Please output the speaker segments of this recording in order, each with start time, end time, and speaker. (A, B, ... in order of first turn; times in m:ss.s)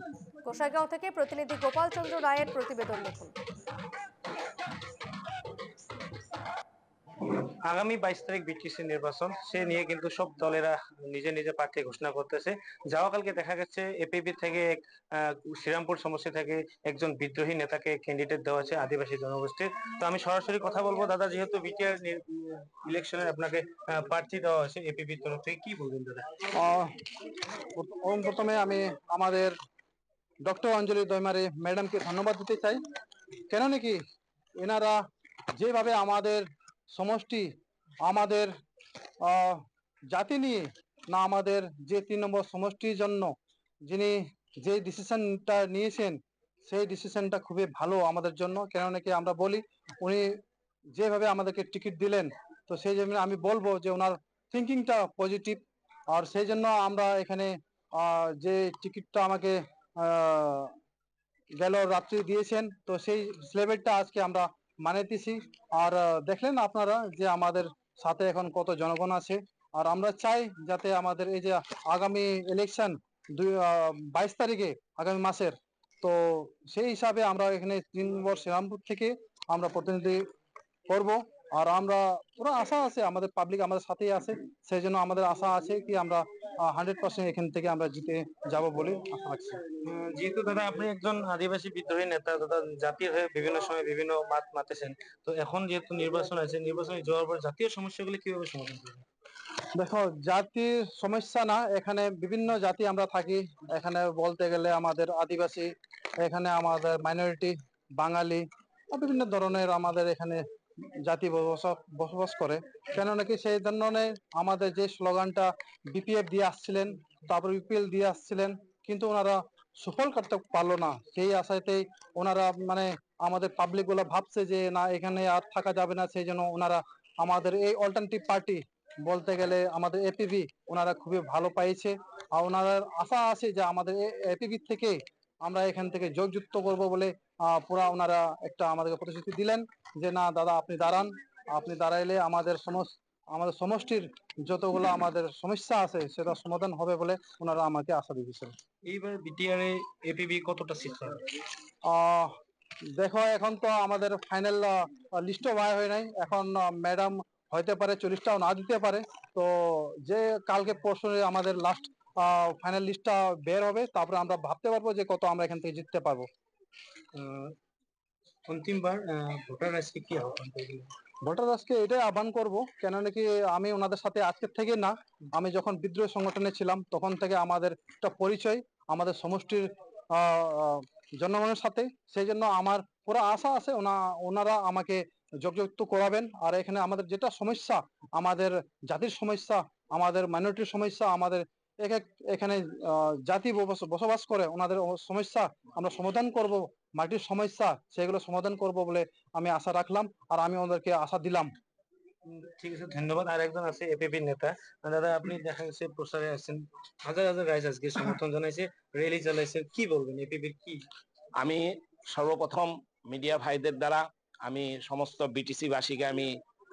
0:00.4-0:03.4 A
0:07.3-0:26.3 B
0:26.5-0:27.0 C
0:27.6-0:29.5 C
0:30.4-0:32.8 C
0:33.5-0:34.0 C
0:34.6-0:35.0 C
0:35.6-0:37.5 C
0:38.0-0:38.5 C
0:39.2-0:43.3 C
0:43.9-0:50.3 C
0:50.9-1:00.7 C
1:01.6-1:20.2 C
1:20.9-1:29.6 C
1:29.8-1:39.0 B
1:39.7-1:45.7 C
1:46.2-2:28.6 C
2:28.8-2:31.2 B
2:31.8-2:32.3 C
2:32.9-2:46.3 C
2:47.1-2:47.5 B
2:48.5-2:50.9 B
2:51.2-3:21.5 C
3:22.3-3:30.8 B
3:31.4-3:36.4 D